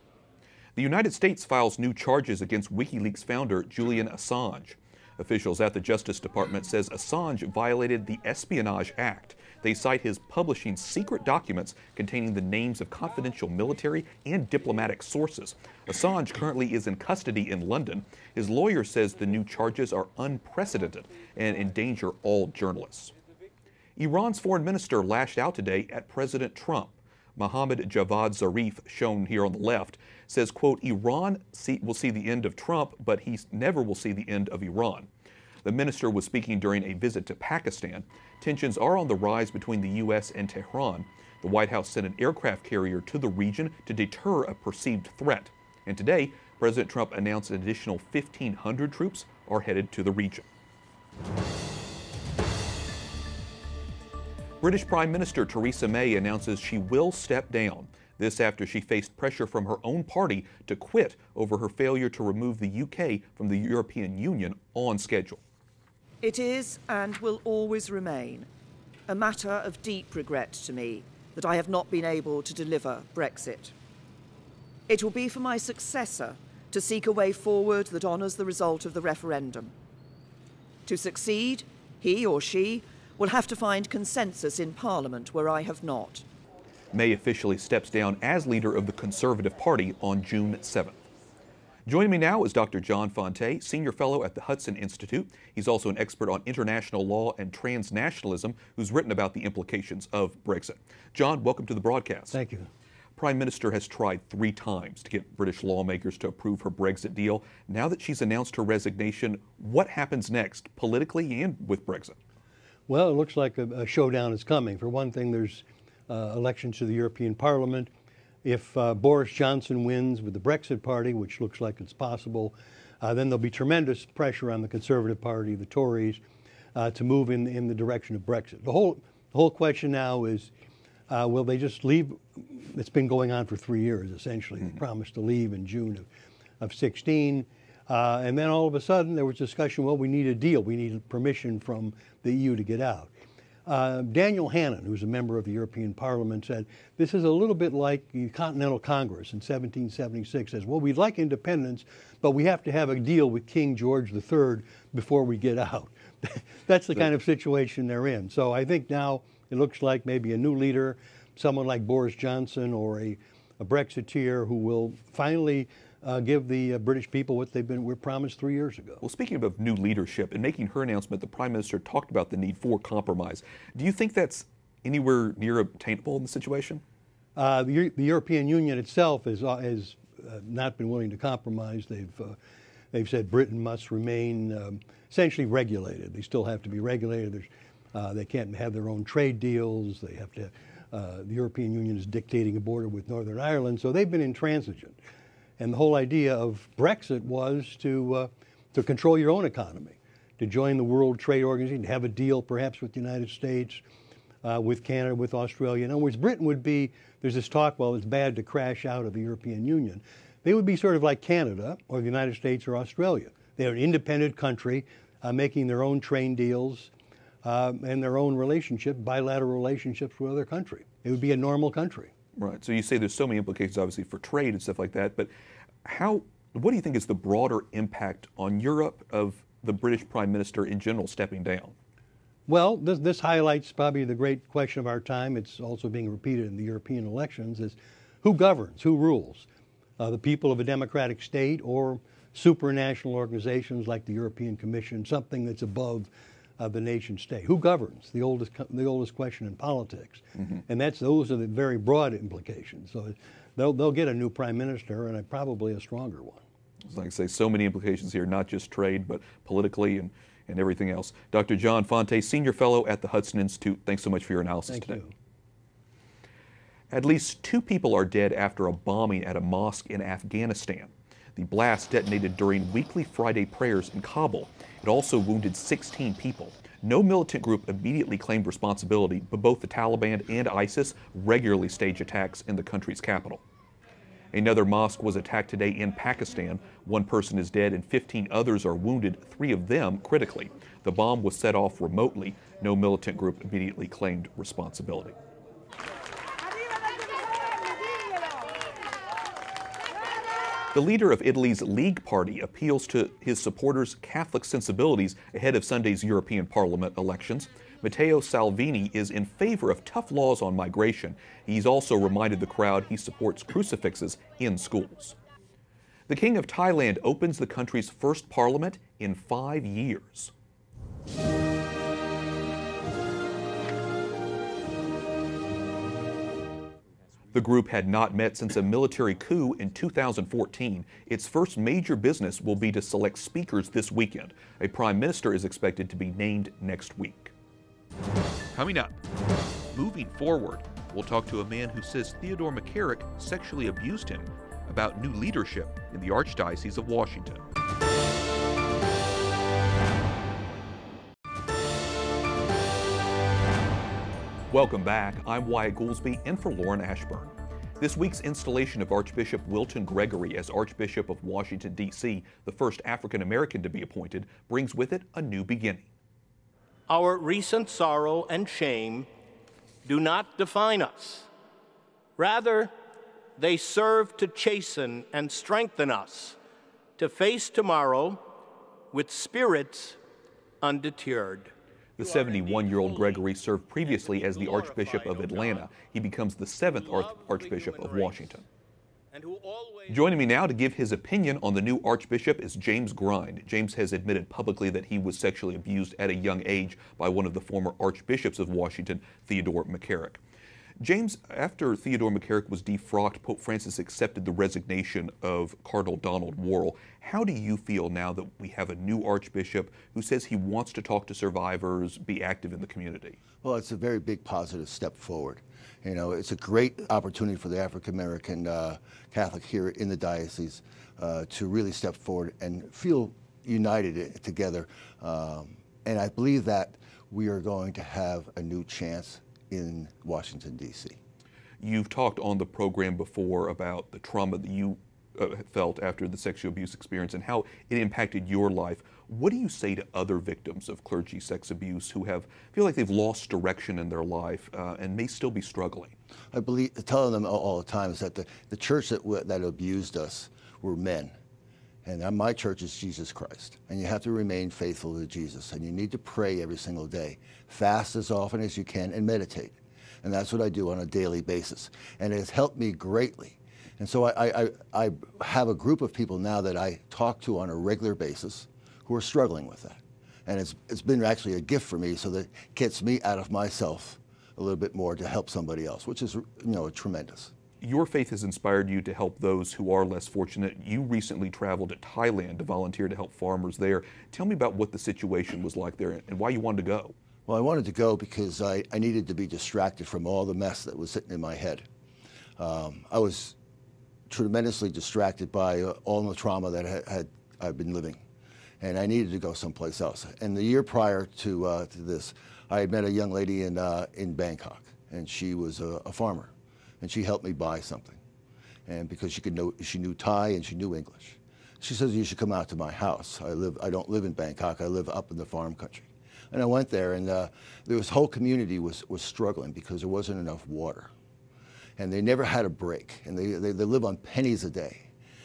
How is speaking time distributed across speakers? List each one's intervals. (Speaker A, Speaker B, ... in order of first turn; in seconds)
Speaker A: 0.8-23.1, 24.0-35.1, 35.6-50.5, 54.6-65.4, 86.9-91.0, 91.9-102.4, 103.2-112.2, 169.0-176.8, 222.4-225.3, 225.8-231.8, 256.9-265.0, 266.9-283.4, 284.3-295.2, 300.7-315.2, 316.1-320.3, 327.3-337.3, 338.5-339.0, 339.7-347.4, 354.5-365.9, 382.0-388.4, 389.9-400.2, 400.8-413.2, 431.6-445.9, 477.6-486.9
Speaker B: 66.2-68.5, 69.1-73.7, 74.9-79.7, 80.9-86.2
Speaker C: 102.3-102.7, 112.9-117.9, 118.4-126.2, 126.8-130.5, 131.1-136.1, 136.6-143.1, 143.7-169.0, 177.4-182.4, 182.9-195.0, 195.6-203.8, 204.4-216.9, 217.4-222.1, 232.5-239.5, 240.0-256.4, 264.7-265.1
Speaker D: 366.9-369.1, 369.9-371.3, 372.2-372.7, 373.4-376.4, 377.0-378.2, 378.9-380.0, 380.6-383.2, 383.9-385.7, 386.7-388.4, 389.1-390.0
Speaker E: 413.4-431.0, 446.3-451.1, 451.9-477.3, 487.3-491.6, 492.4-493.4, 494.1-498.0, 498.6-508.0, 508.7-520.9, 521.8-524.9